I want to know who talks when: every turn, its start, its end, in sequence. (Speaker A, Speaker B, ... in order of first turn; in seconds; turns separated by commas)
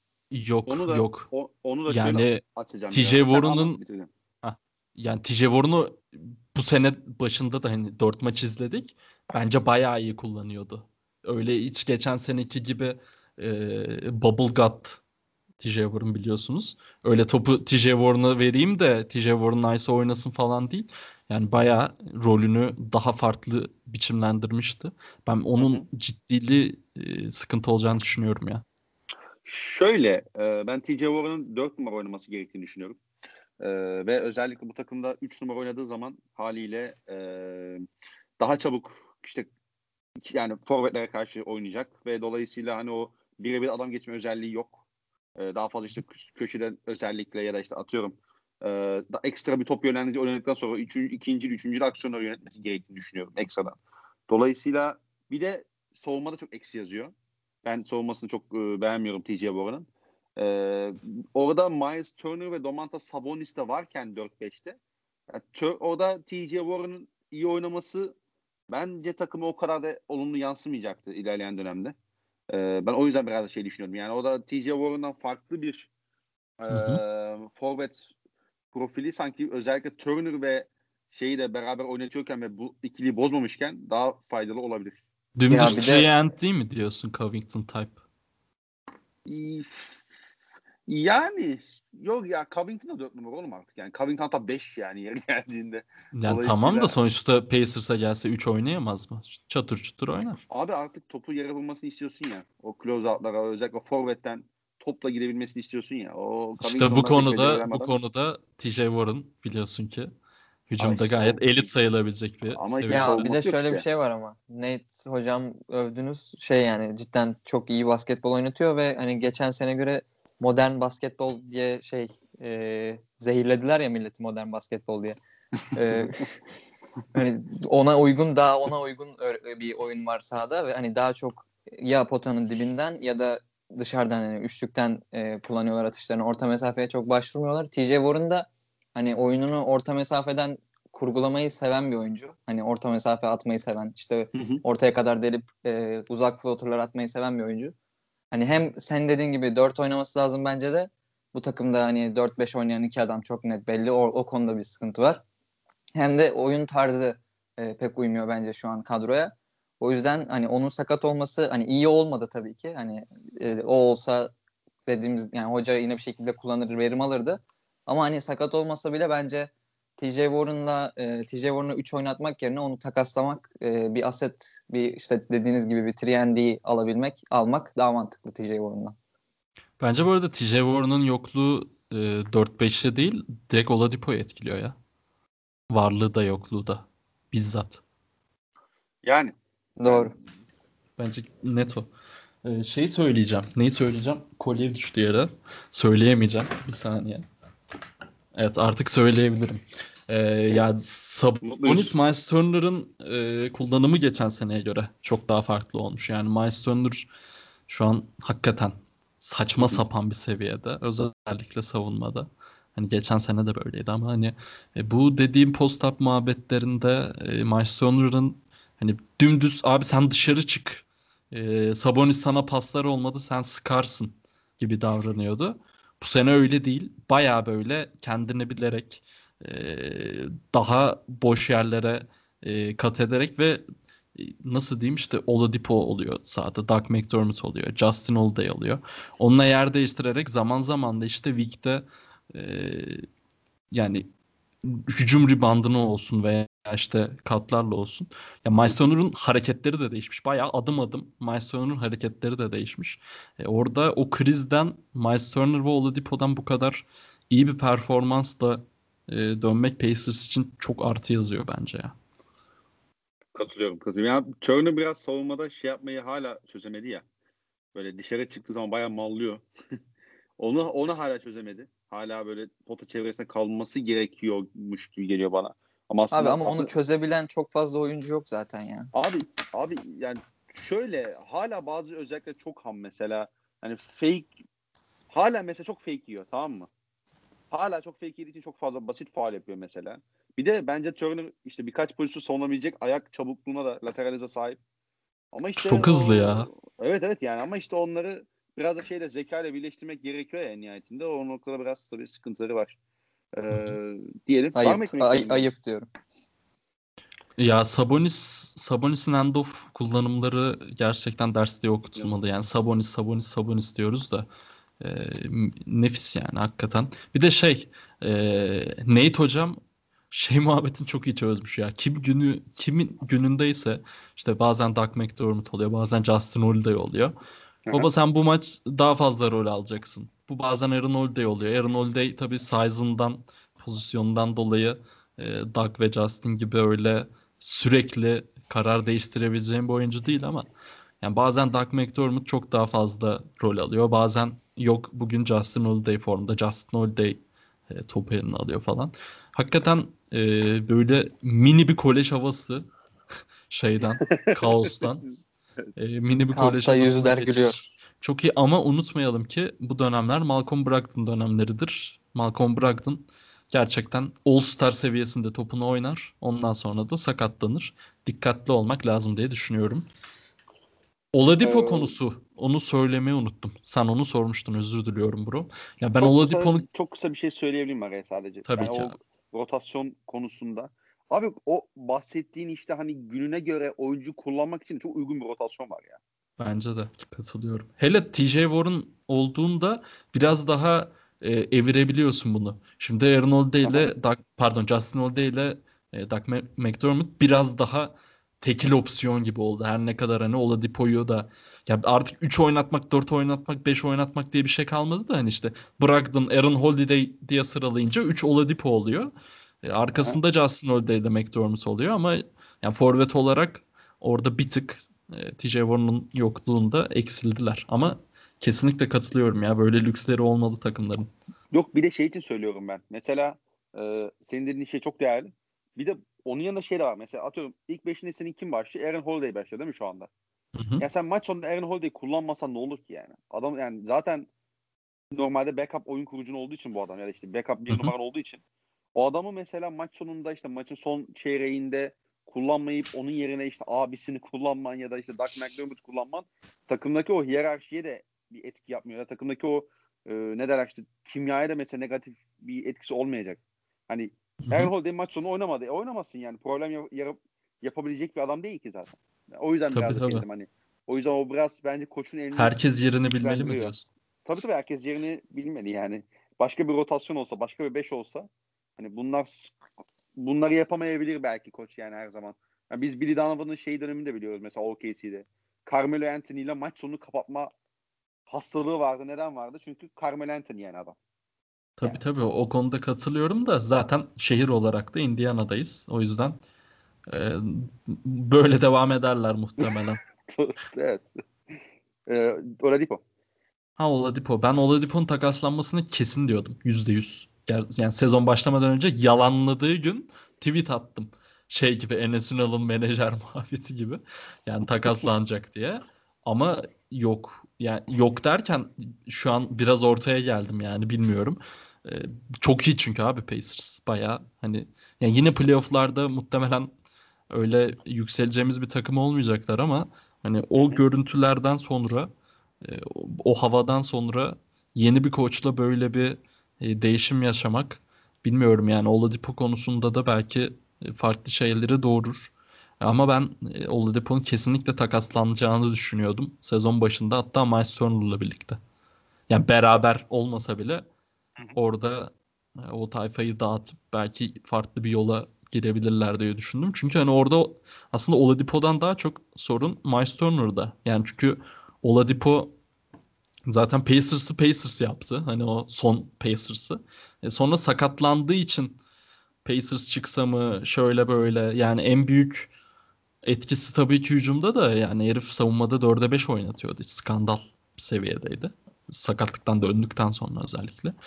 Speaker A: 0.3-1.3, Speaker B: 0.7-4.1, Speaker A: 1.9-3.8, Speaker A: 4.4-15.0, Speaker A: 15.6-28.6, Speaker B: 25.6-25.8, Speaker B: 29.4-33.0, Speaker B: 33.6-37.9, Speaker B: 38.4-39.5, Speaker B: 40.2-44.8, Speaker B: 45.4-64.8, Speaker B: 65.3-68.2, Speaker B: 68.7-71.9, Speaker B: 72.5-75.9, Speaker B: 76.6-78.1, Speaker A: 76.7-77.0, Speaker B: 78.7-85.0, Speaker A: 85.3-88.0, Speaker C: 85.5-86.1, Speaker B: 89.2-90.0, Speaker B: 90.9-97.0, Speaker A: 96.1-100.4, Speaker B: 100.5-107.9, Speaker A: 106.6-110.1, Speaker A: 110.7-113.2, Speaker B: 110.8-111.7, Speaker B: 112.5-113.8, Speaker C: 112.9-125.2, Speaker C: 125.7-126.2, Speaker C: 127.1-147.7, Speaker B: 144.3-144.6, Speaker C: 148.3-155.2, Speaker C: 155.9-164.3, Speaker C: 164.9-178.9, Speaker A: 179.8-184.7, Speaker A: 185.7-187.8, Speaker B: 189.0-190.1, Speaker C: 189.8-190.1, Speaker A: 191.0-191.9, Speaker A: 192.4-197.2, Speaker A: 198.3-207.1, Speaker B: 201.4-201.9, Speaker A: 207.7-233.6, Speaker B: 209.6-209.8, Speaker A: 234.1-243.1, Speaker A: 243.7-244.1, Speaker A: 244.6-261.9, Speaker B: 263.3-267.0, Speaker B: 267.7-269.4, Speaker B: 270.4-276.7, Speaker C: 276.1-278.9, Speaker B: 278.9-284.3, Speaker B: 285.1-286.7, Speaker B: 287.5-294.6, Speaker B: 295.3-302.8, Speaker A: 295.6-296.5, Speaker B: 303.3-305.4, Speaker C: 304.6-305.9, Speaker A: 307.4-314.3, Speaker A: 314.8-319.6, Speaker A: 320.1-327.1, Speaker A: 327.7-340.4, Speaker A: 341.0-352.7, Speaker A: 353.5-355.1, Speaker B: 354.0-354.8, Speaker A: 355.8-369.9, Speaker C: 356.3-357.6, Speaker A: 371.1-376.6, Speaker B: 371.4-371.9, Speaker B: 376.0-386.0, Speaker A: 378.4-379.0, Speaker A: 386.4-409.1, Speaker B: 393.6-393.9, Speaker A: 409.6-421.1, Speaker B: 421.5-430.1, Speaker A: 430.5-430.9, Speaker B: 430.8-434.3, Speaker B: 435.1-438.4, Speaker B: 438.9-462.6, Speaker A: 454.4-454.7, Speaker A: 459.7-460.2, Speaker A: 462.4-463.9, Speaker B: 463.1-463.7, Speaker B: 464.2-469.6, Speaker B: 470.1-477.5, Speaker B: 478.3-480.9, Speaker A: 481.8-486.4, Speaker A: 487.1-490.0, Speaker B: 489.6-491.1, Speaker B: 492.1-493.0, Speaker A: 493.8-516.7, Speaker A: 517.3-522.1, Speaker B: 520.6-520.8, Speaker A: 522.6-538.6, Speaker A: 539.3-540.9, Speaker A: 541.5-552.5, Speaker A: 553.5-558.8, Speaker A: 559.4-562.5, Speaker A: 563.2-570.9